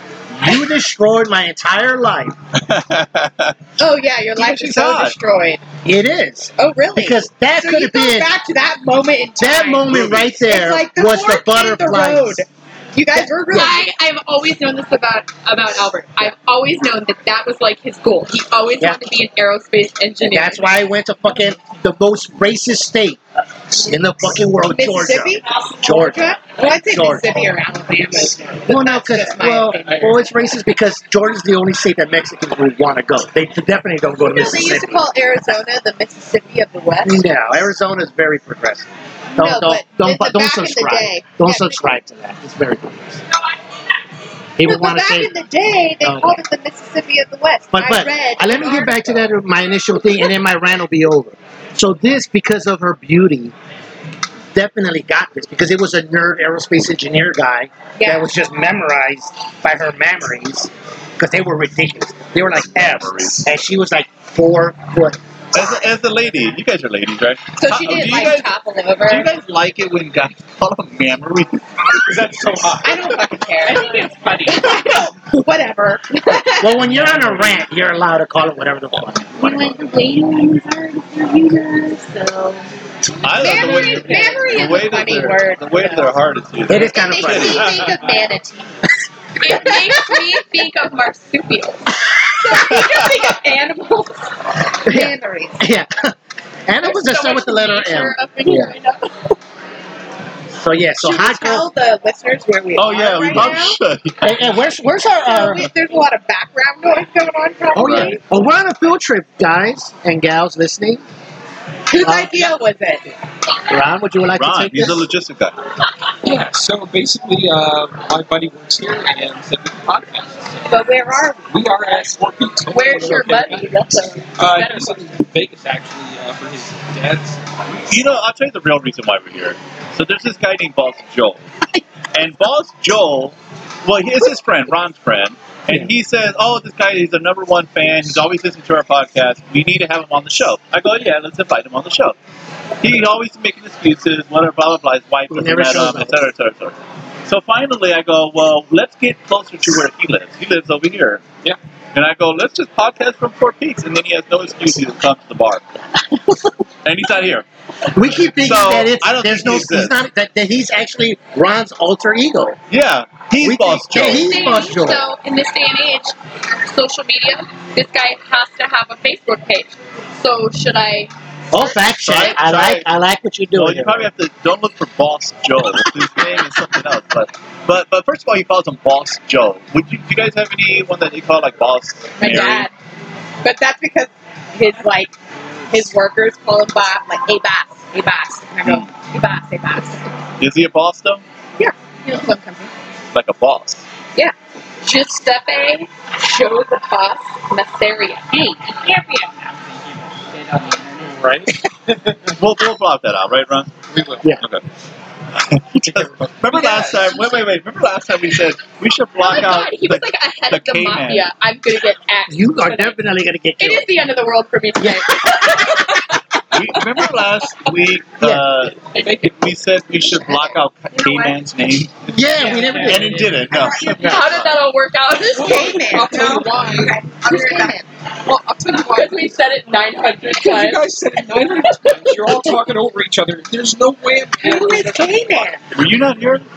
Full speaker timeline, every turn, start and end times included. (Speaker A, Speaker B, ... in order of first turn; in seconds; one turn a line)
Speaker A: 0.3-2.4
Speaker B: 2.6-3.6
Speaker C: 3.8-5.6
Speaker B: 4.3-5.2
Speaker A: 5.8-8.3
Speaker C: 6.6-13.9
Speaker A: 9.4-12.4
Speaker A: 13.1-13.8
Speaker D: 13.5-20.7
Speaker A: 18.8-19.1
Speaker A: 20.2-27.6
Speaker C: 24.6-30.2
Speaker A: 28.7-35.1
Speaker E: 29.8-30.1
Speaker C: 34.2-37.4
Speaker A: 37.0-43.2
Speaker C: 39.4-41.9
Speaker A: 44.6-45.3
Speaker C: 44.6-49.2
Speaker A: 46.0-46.4
Speaker A: 47.7-53.5
Speaker A: 54.5-65.8
Speaker C: 58.0-58.2
Speaker B: 62.5-63.5
Speaker B: 65.5-68.5
Speaker C: 67.6-69.3
Speaker B: 69.0-72.2
Speaker E: 72.0-73.0
Speaker C: 72.8-76.8
Speaker F: 73.6-74.8
Speaker A: 76.5-79.6
Speaker B: 76.8-77.6
Speaker F: 79.3-82.7
Speaker B: 83.2-87.9
Speaker F: 83.2-84.5
Speaker C: 83.4-88.8
Speaker A: 86.7-87.8
Speaker D: 89.4-91.8
Speaker C: 89.4-90.2
Speaker C: 92.3-94.1
Speaker B: 92.5-93.1
Speaker C: 94.8-95.7
Speaker A: 94.8-96.1
Speaker A: 96.7-98.8
Speaker D: 96.8-99.3
Speaker A: 100.5-101.7
Speaker C: 101.0-103.8
Speaker B: 102.7-104.4
Speaker A: 104.2-105.7
Speaker C: 105.2-108.2
Speaker A: 107.7-111.0
Speaker B: 107.7-108.2
Speaker C: 111.9-113.0
Speaker A: 112.0-112.5
Speaker A: 113.7-115.1
Speaker B: 114.4-115.6
Speaker E: 116.2-127.4
Speaker C: 120.7-121.5
Speaker D: 122.7-125.1
Speaker B: 127.8-131.4
Speaker B: 132.1-142.2
Speaker B: 142.8-146.7
Speaker A: 145.3-146.2
Speaker B: 147.2-151.2
Speaker B: 151.9-155.6
Speaker B: 156.8-157.4
Speaker A: 157.9-162.6
Speaker B: 158.4-160.0
Speaker B: 162.7-164.6
Speaker A: 163.4-165.0
Speaker D: 164.0-166.1
Speaker D: 166.7-171.8
Speaker A: 171.5-174.1
Speaker B: 172.0-172.9
Speaker B: 173.5-182.7
Speaker C: 182.2-182.6
Speaker D: 182.2-182.7
Speaker C: 183.4-185.1
Speaker C: 185.7-190.0
Speaker B: 190.4-191.2
Speaker C: 191.6-192.7
Speaker B: 193.1-193.8
Speaker D: 194.8-198.4
Speaker F: 198.3-201.3
Speaker E: 201.1-202.3
Speaker B: 202.4-203.7
Speaker E: 203.9-204.5
Speaker B: 205.3-211.3
Speaker E: 205.8-207.3
Speaker D: 209.2-213.0
Speaker A: 212.3-213.9
Speaker D: 213.6-217.0
Speaker A: 214.8-215.7
Speaker B: 216.5-222.1
Speaker A: 218.2-218.6
Speaker D: 218.9-219.3
Speaker D: 220.9-221.3
Speaker A: 222.1-223.3
Speaker F: 222.3-223.4
Speaker E: 222.4-223.0
Speaker B: 222.8-224.6
Speaker C: 223.5-224.4
Speaker D: 224.0-227.8
Speaker E: 224.0-224.2
Speaker E: 225.2-226.9
Speaker C: 225.3-227.8
Speaker F: 227.3-227.6
Speaker E: 228.3-229.2
Speaker D: 228.6-232.5
Speaker E: 230.3-235.5
Speaker C: 234.4-235.7
Speaker B: 235.7-236.4